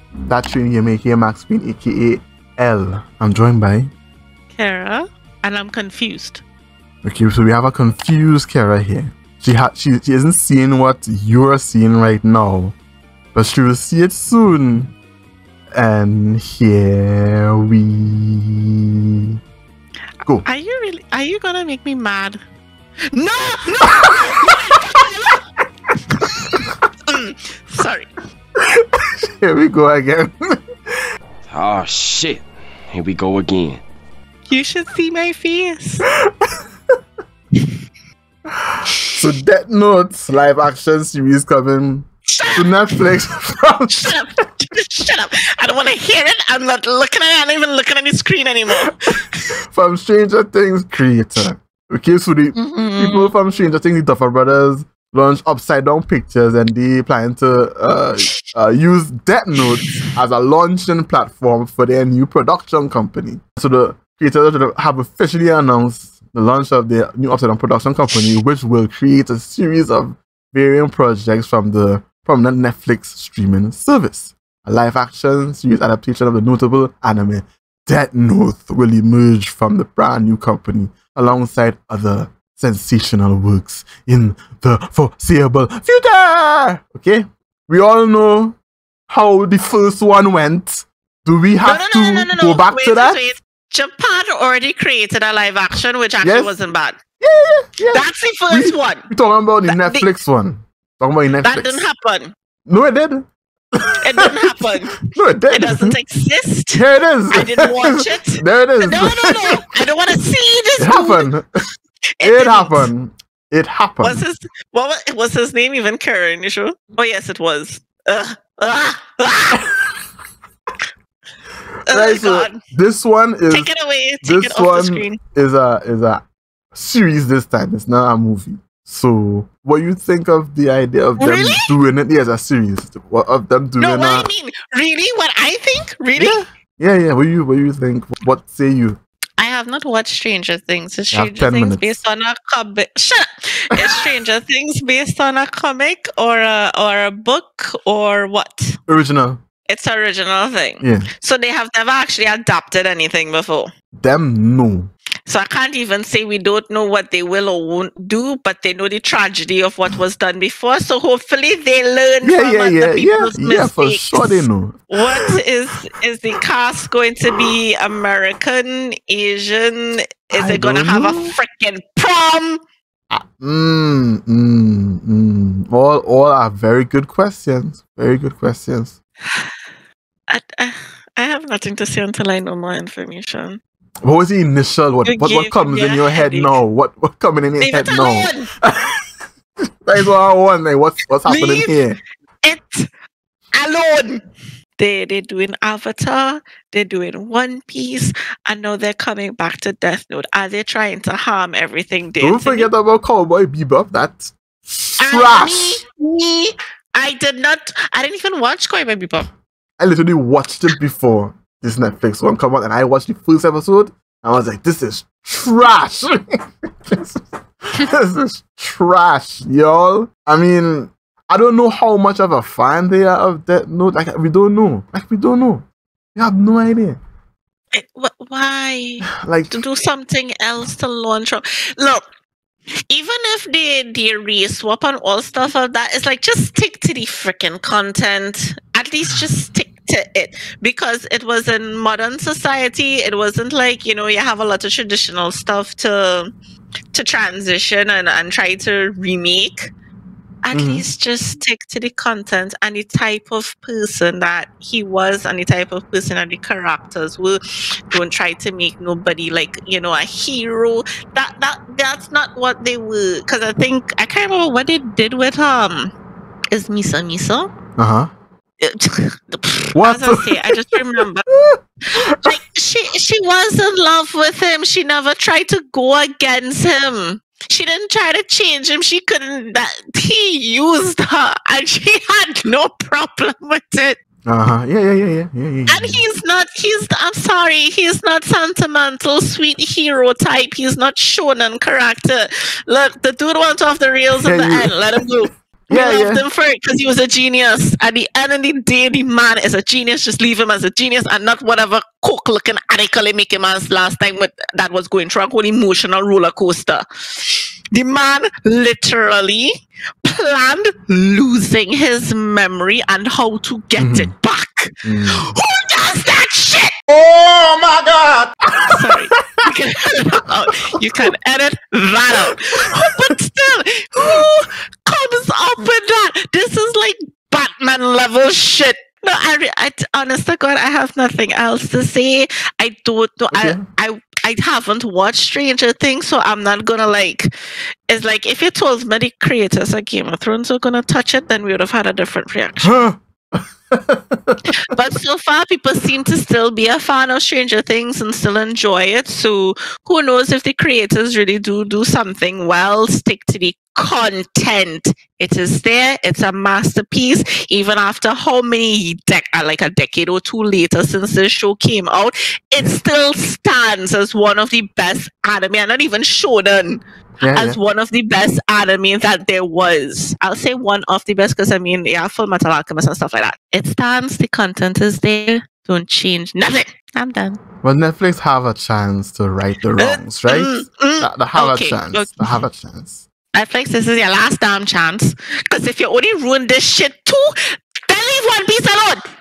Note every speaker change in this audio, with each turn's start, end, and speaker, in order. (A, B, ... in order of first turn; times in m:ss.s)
0:00.3-0:03.9 A
0:04.5-0:06.4 B
0:07.0-0:12.7 A
0:13.3-0:14.9 A
0:15.7-0:18.6 A
0:20.4-0:22.4 B
0:23.1-0:25.4 B
0:27.1-0:28.1 B
0:29.0-0:30.4 A
0:31.4-0:33.8 C
0:34.5-0:36.0 B
0:39.0-0:44.1 A
0:42.4-0:43.0 B
0:43.9-0:49.4 B
0:49.7-1:28.6 A
0:52.5-0:53.3 B
0:59.6-1:00.1 B
1:29.1-1:33.2 A
1:31.6-1:37.0 B
1:36.2-1:36.5 A
1:37.2-1:41.8 A
1:37.9-1:39.1 B
1:39.7-1:40.1 B
1:41.4-1:42.3 B
1:42.7-1:43.3 A
1:43.8-1:45.9 A
1:44.0-1:51.3 B
1:46.7-1:49.6 A
1:50.8-1:51.4 A
1:52.2-1:52.9 B
1:52.2-1:54.2 A
1:54.0-1:59.6 B
2:01.9-2:02.6 B
2:01.9-2:03.7 A
2:03.5-2:05.2 B
2:04.2-2:06.2 A
2:06.7-2:14.3 A
2:11.2-2:11.7 B
2:13.8-2:16.4 B
2:16.2-2:19.0 A
2:19.4-2:28.8 B
2:21.1-2:22.0 A
2:28.9-2:29.4 A
2:29.7-2:33.7 B
2:30.8-2:31.1 A
2:34.0-2:34.9 A
2:35.3-2:52.6 B
2:42.2-2:45.3 A
2:50.3-2:51.3 A
2:53.1-2:59.0 A
3:00.3-3:03.6 B
3:04.0-3:09.0 A
3:05.0-3:06.6 B
3:07.6-3:08.5 B
3:09.8-3:12.0 A
3:11.3-3:11.8 B
3:12.4-3:12.9 B
3:13.5-3:14.2 B
3:14.8-3:22.7 B
3:22.2-3:25.8 A
3:25.0-3:29.3 B
3:29.8-3:36.2 A
3:36.9-3:47.0 A
3:47.7-3:52.0 B
3:49.1-3:49.6 A
3:52.9-4:06.3 B
4:06.9-4:09.6 B
4:10.4-4:17.4 B
4:10.5-4:10.8 A
4:17.9-4:25.9 B
4:26.5-4:27.5 B
4:27.8-4:28.1 A
4:28.6-4:31.2 B
4:29.7-4:30.8 A
4:31.3-4:32.3 A
4:32.1-4:44.0 B
4:44.3-4:46.0 A
4:45.7-5:09.5 B
4:54.2-4:54.7 A
4:55.7-4:56.2 A
5:10.0-5:16.7 B
5:13.8-5:14.1 A
5:14.8-5:15.3 A
5:16.9-5:19.5 A
5:18.7-5:37.3 B
5:22.6-5:22.9 A
5:33.3-5:33.6 A
5:37.9-5:42.7 B
5:42.6-5:44.5 A
5:44.5-6:17.4 B
6:07.2-6:07.6 A
6:17.6-6:23.0 A
6:19.8-6:22.3 B
6:23.3-6:27.3 B
6:27.9-6:29.0 B